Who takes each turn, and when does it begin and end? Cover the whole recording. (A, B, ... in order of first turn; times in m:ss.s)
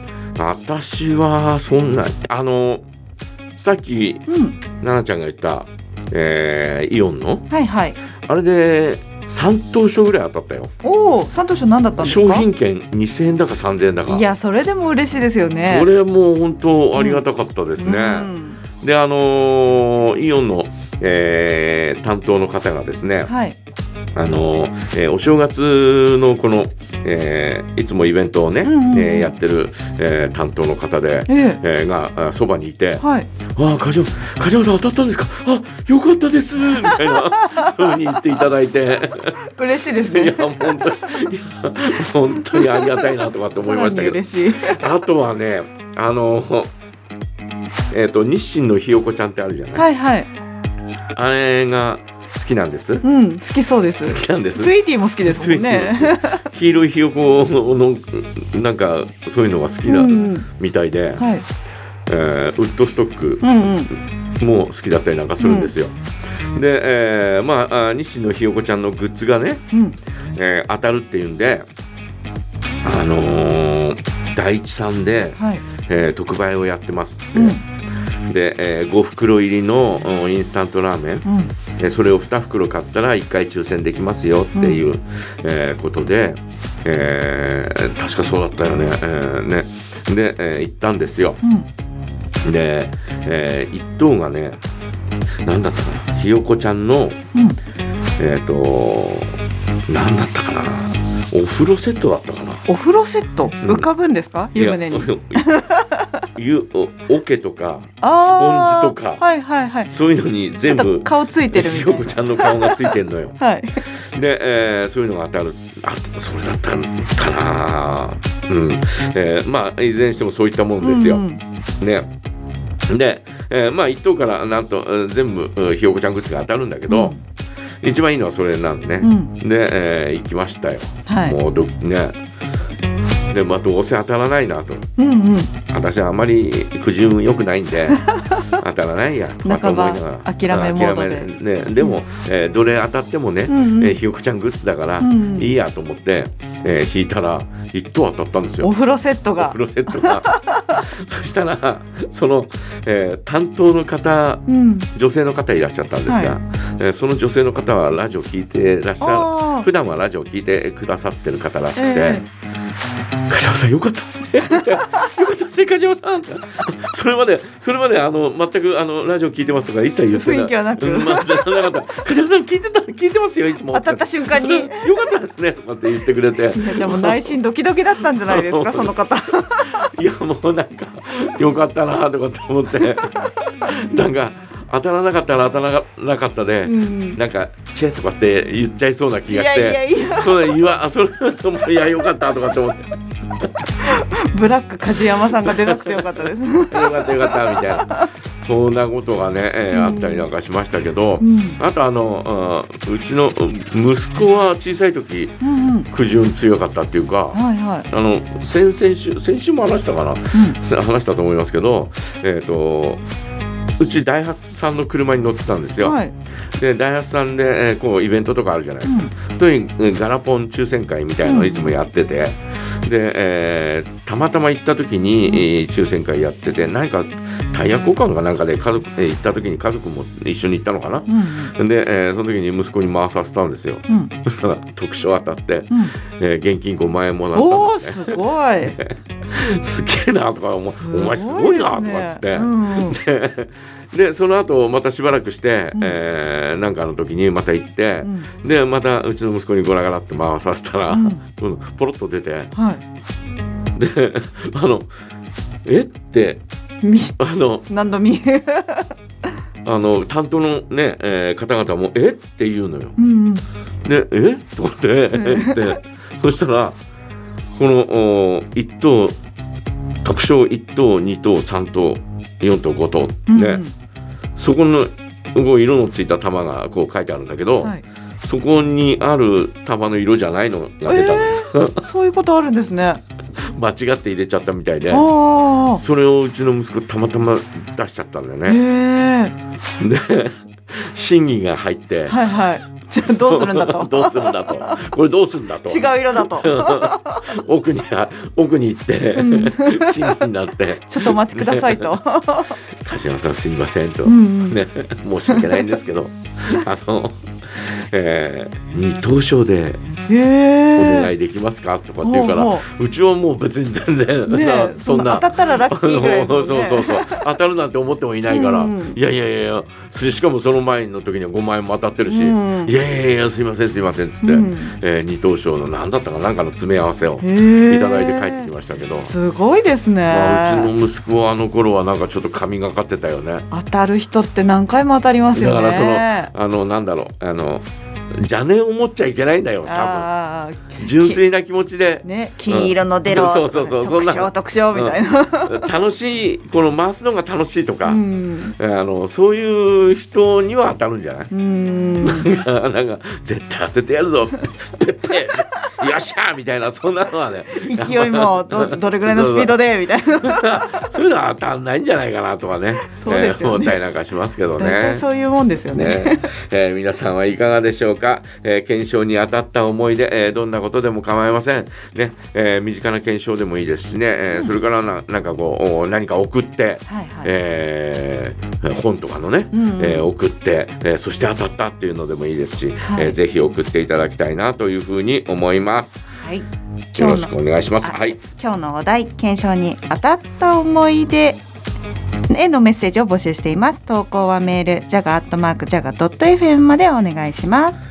0:00.4-0:02.8 A
0:03.6-0:07.5 A
0:04.3-0:04.6 B
0:07.5-0:08.0 B
0:08.2-0:10.7 A
0:10.8-0:12.4 B
0:12.0-0:14.2 A
0:14.1-0:15.9 B
0:15.6-0:23.3 A
0:17.0-0:17.2 B
0:17.8-0:18.6 B
0:23.2-0:23.6 B
0:24.1-0:39.4 A
0:28.6-0:29.3 B
0:31.3-0:31.6 B
0:33.0-0:33.3 B
0:36.8-0:38.1 B
0:39.4-0:41.0 B
0:40.0-0:46.7 A
0:42.3-0:44.8 B
0:47.9-0:49.8 A
0:49.7-0:50.3 B
0:51.1-0:53.0 A
0:53.0-0:56.4 B
0:54.0-1:01.2 A
0:59.8-1:00.4 B
1:01.2-1:01.4 B
1:02.1-1:03.5 A
1:03.4-1:03.9 B
1:04.4-1:05.9 A
1:05.4-1:05.7 B
1:06.5-1:09.6 A
1:09.7-1:10.0 B
1:10.3-1:11.6 A
1:12.8-1:17.6 A
1:15.4-1:15.6 B
1:17.3-1:17.6 B
1:18.3-1:21.2 A
1:21.2-1:21.5 B
1:21.8-1:31.4 A
1:24.5-1:24.8 B
1:32.4-1:34.6 A
1:35.4-1:37.2 A
1:38.2-1:42.7 A
1:42.7-1:46.1 B
1:43.6-1:43.9 A
1:44.6-1:45.5 A
1:46.3-1:49.2 A
1:48.0-1:49.9 B
1:49.9-1:53.4 A
1:50.7-1:53.8 B
1:53.9-2:01.2 A
2:00.8-2:01.4 B
2:01.8-2:02.1 A
2:02.9-2:07.2 A
2:06.9-2:07.2 B
2:07.8-2:12.2 A
2:09.0-2:09.3 B
2:11.1-2:11.4 B
2:13.3-2:14.9 A
2:15.0-2:15.5 B
2:15.7-2:28.7 A
2:19.4-2:21.3 B
2:23.5-2:24.0 B
2:25.0-2:25.5 B
2:28.6-2:30.8 B
2:29.4-2:42.2 A
2:34.5-2:34.9 B
2:36.1-2:36.3 B
2:39.0-2:39.7 B
2:41.7-2:42.2 B
2:43.3-2:57.3 A
2:50.1-2:51.7 B
2:53.7-2:55.1 B
2:56.5-2:59.9 B
2:58.2-3:13.0 A
3:02.8-3:03.1 B
3:06.6-3:07.2 B
3:09.3-3:10.5 B
3:13.8-3:18.1 B
3:15.1-3:33.0 A
3:19.7-3:20.3 B
3:21.2-3:21.6 B
3:25.4-3:25.9 B
3:27.3-3:27.9 B
3:33.8-3:36.0 A
3:35.8-3:36.1 B
3:36.6-4:12.5 A
3:38.8-3:39.1 B
3:41.2-3:41.7 B
3:51.1-3:51.5 B
3:53.9-3:54.1 B
3:57.3-3:58.8 B
4:00.8-4:03.0 B
4:08.0-4:08.3 B
4:10.9-4:11.2 B
4:12.5-4:12.8 B
4:13.7-4:14.9 A
4:15.6-4:16.4 A
4:16.8-4:18.9 B
4:17.2-4:17.7 A
4:19.6-4:23.0 A
4:23.0-4:23.4 B
4:23.8-4:26.8 A
4:25.1-4:25.7 B
4:27.6-4:29.2 A
4:30.0-4:33.6 A
4:33.3-4:33.7 B
4:34.4-4:41.8 A
4:40.9-4:43.0 B
4:43.4-4:45.1 A
4:44.9-4:45.8 B
4:45.7-4:48.6 A
4:48.4-4:49.3 B
4:49.8-4:52.2 A
4:52.1-4:54.9 B
4:53.2-5:01.9 A
4:55.6-4:57.3 B
4:59.1-5:00.2 B
5:00.9-5:02.6 B
5:02.8-5:09.8 A
5:04.0-5:04.6 B
5:05.3-5:05.7 B
5:10.1-5:11.1 B
5:10.7-5:29.1 A
5:12.0-5:12.6 B
5:14.3-5:17.3 B
5:18.3-5:19.0 B
5:22.0-5:22.7 B
5:24.2-5:24.7 B
5:27.2-5:30.7 B
5:30.1-5:33.5 A
5:33.5-5:36.3 B
5:35.3-5:37.6 A
5:38.2-5:40.1 A
5:39.6-5:41.2 B
5:40.8-5:48.0 A
5:42.0-5:45.7 B
5:47.8-5:48.5 B
5:48.6-5:51.3 A
5:51.3-5:52.3 B
5:52.0-5:59.6 A
5:57.6-6:00.9 B
6:00.2-6:05.0 A
6:02.8-6:03.8 B
6:04.6-6:06.3 B
6:05.7-6:26.0 A
6:16.9-6:17.3 B
6:19.5-6:20.1 B
6:22.8-6:23.2 B
6:26.2-6:31.4 B
6:26.9-6:28.2 A
6:32.3-6:37.8 B